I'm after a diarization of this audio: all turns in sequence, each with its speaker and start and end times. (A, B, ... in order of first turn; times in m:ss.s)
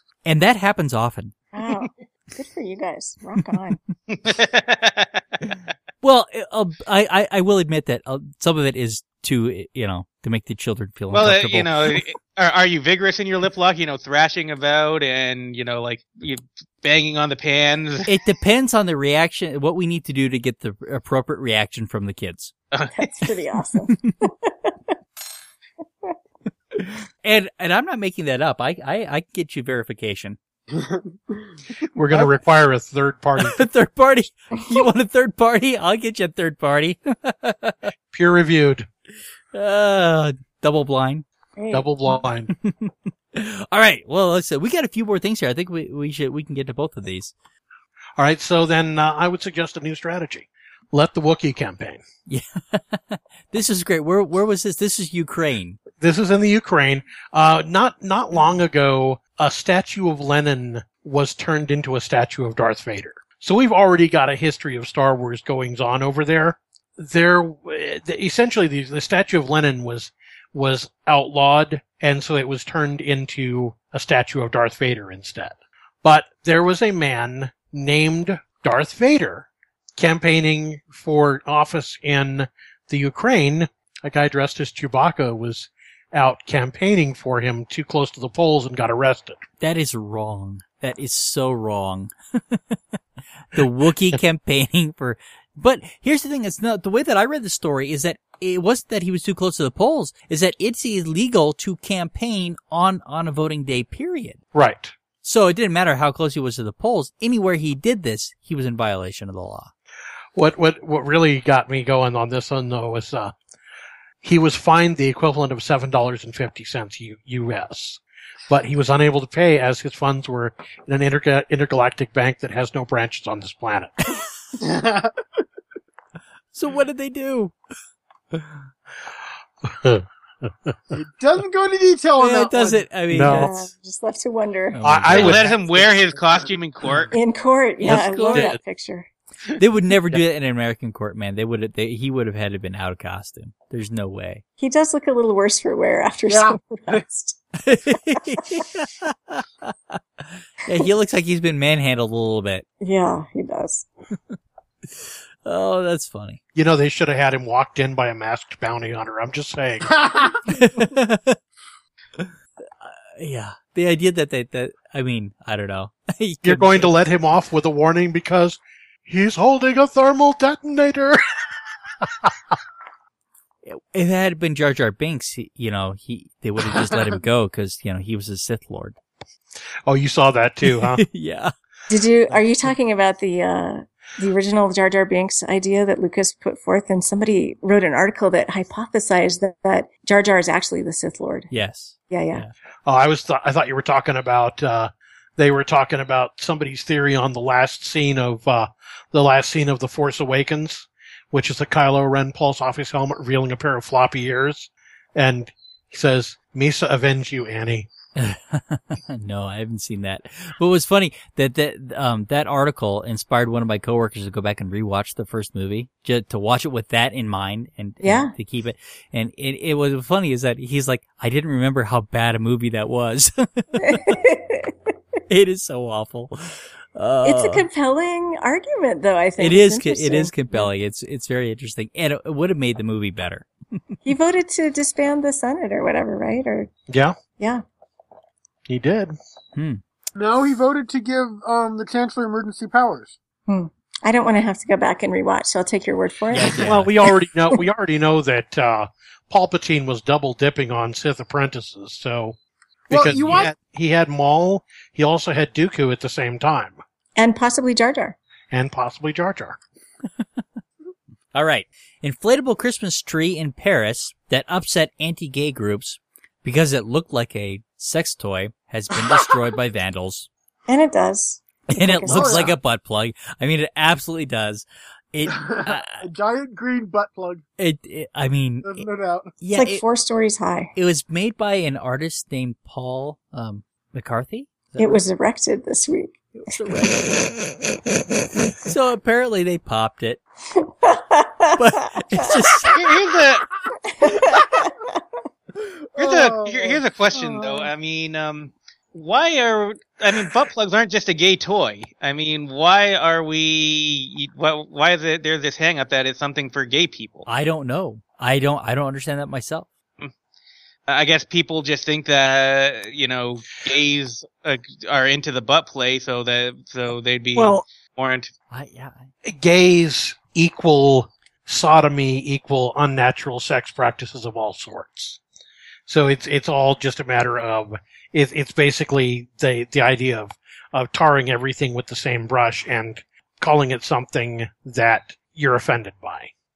0:00.2-0:01.4 A
0:01.5-0:03.8 B
0:04.1-0:05.4 C
0:06.0-0:12.0 A
0:11.1-0:18.1 C
0:18.1-0:22.5 A
0:22.7-0:23.1 C
0:22.9-0:24.9 B
0:23.9-0:24.1 A
0:26.7-0:30.4 A
0:30.7-0:31.4 D
0:31.9-0:33.7 E
0:33.4-0:37.9 A
0:38.1-0:38.9 E
0:39.5-0:41.2 A
0:41.6-0:41.9 B
0:41.7-0:42.5 E
0:42.5-0:47.3 A
0:48.2-0:52.0 E
0:52.3-0:55.8 A
0:56.0-1:29.4 E
1:29.6-1:32.8 A
1:33.5-1:44.4 A
1:44.5-1:45.0 E
1:45.2-1:49.7 A
1:50.4-1:53.4 E
1:54.2-2:03.9 E
2:04.6-2:05.2 D
2:06.5-2:07.5 A
2:08.3-2:08.6 A
2:09.7-2:10.0 E
2:10.7-2:11.0 E
2:10.9-2:12.9 D
2:12.2-2:13.7 A
2:13.1-2:13.5 E
2:13.3-2:14.8 B
2:14.7-2:15.5 A
2:14.8-2:16.1 E
2:15.1-2:17.1 C
2:17.1-2:19.1 B
2:17.8-2:18.6 A
2:17.8-2:18.6 E
2:19.6-2:24.4 A
2:24.6-2:27.4 B
2:26.3-2:27.0 D
2:27.6-2:32.6 A
2:32.8-2:33.9 B
2:34.9-2:36.4 A
2:36.6-2:40.4 E
2:40.0-2:40.4 D
2:40.5-2:41.4 A
2:42.2-2:47.0 A
2:46.4-2:51.2 E
2:52.0-2:52.3 E
2:53.6-2:59.0 A
2:59.9-3:01.0 E
3:00.6-3:01.5 A
3:01.9-3:11.5 B
3:11.5-3:12.5 A
3:12.1-3:12.4 B
3:12.9-3:27.9 E
3:28.2-3:44.2 A
3:38.0-3:38.3 B
3:43.8-3:44.8 B
3:45.3-3:47.7 A
3:47.2-3:50.7 B
3:49.4-3:54.0 A
3:54.0-3:56.7 B
3:56.9-3:57.2 E
3:57.4-3:57.6 B
3:58.7-3:59.2 E
3:59.6-3:59.8 A
4:00.2-4:03.2 D
4:03.5-4:06.8 B
4:06.3-4:07.0 A
4:06.6-4:12.4 E
4:12.9-4:16.8 E
4:12.9-4:13.5 D
4:17.2-4:18.2 B
4:18.5-4:19.6 E
4:21.3-4:30.3 A
4:30.7-4:32.5 B
4:31.7-4:36.0 A
4:32.1-4:32.6 D
4:35.3-4:37.4 D
4:37.6-4:38.8 A
4:38.6-4:39.3 D
4:39.4-4:39.8 A
4:39.6-4:40.7 B
4:40.8-4:45.0 A
4:44.8-4:46.1 B
4:46.3-4:47.5 A
4:48.6-4:50.2 A
4:50.6-4:52.4 B
4:51.6-4:52.8 A
4:52.7-4:53.5 C
4:53.9-4:54.8 B
4:55.9-4:56.8 D
4:56.0-5:07.3 C
4:57.1-4:57.7 B
5:07.3-5:09.7 A
5:10.9-5:18.3 C
5:17.4-5:17.6 E
5:18.5-5:19.1 A
5:19.2-5:25.2 E
5:25.9-5:36.3 E